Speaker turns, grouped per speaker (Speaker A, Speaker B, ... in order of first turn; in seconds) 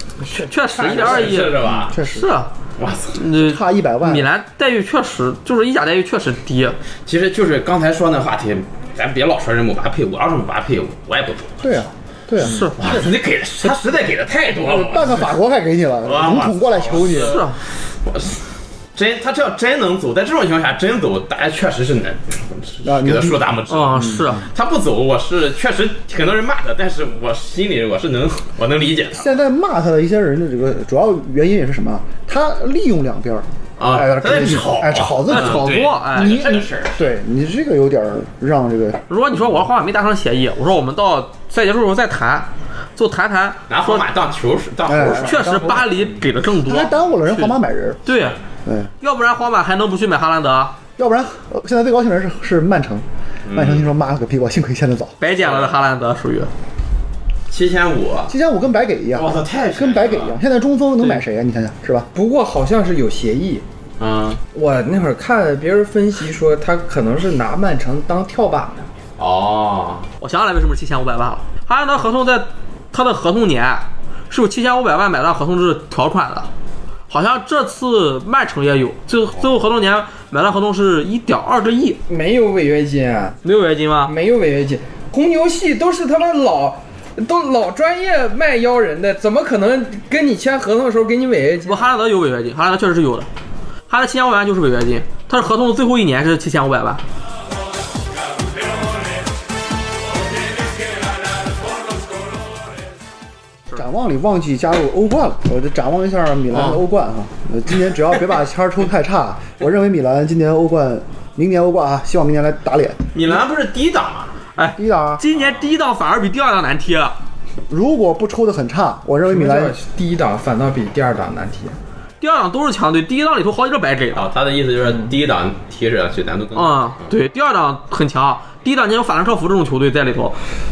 Speaker A: 0.3-1.3, 62.1-63.6, 64.5-68.9, 82.1-83.4, 84.0-91.9, 119.3-121.8
Speaker B: 0.3-2.5, 3.1-6.8, 12.4-13.0, 17.2-17.6, 23.7-24.5, 35.3-36.5, 39.1-44.0, 45.1-47.5, 48.0-48.4, 49.0-50.8, 55.2-56.5, 70.2-76.5, 77.1-82.0, 83.4-84.1, 91.7-93.3, 93.9-97.0, 106.5-106.8, 114.5-117.2, 122.2-124.3, 126.5-130.4
Speaker C: 0.7-2.0, 2.8-3.2, 7.0-11.7, 12.8-15.3, 16.0-18.4, 18.9-29.3, 33.8-37.1, 43.7-45.7, 53.5-53.9, 55.4-55.8, 57.5-58.3, 59.1-60.4, 64.0-64.4, 69.2-70.1, 113.1-114.3, 115.3-115.7, 124.1-127.1
Speaker D: 1.6-2.3, 3.2-4.3, 11.6-13.1, 14.6-17.4, 22.8-24.4, 29.1-39.0, 44.9-48.0, 48.6-48.9, 51.0-55.2, 58.3-62.1, 103.7-113.2, 114.7-115.2, 117.7-119.7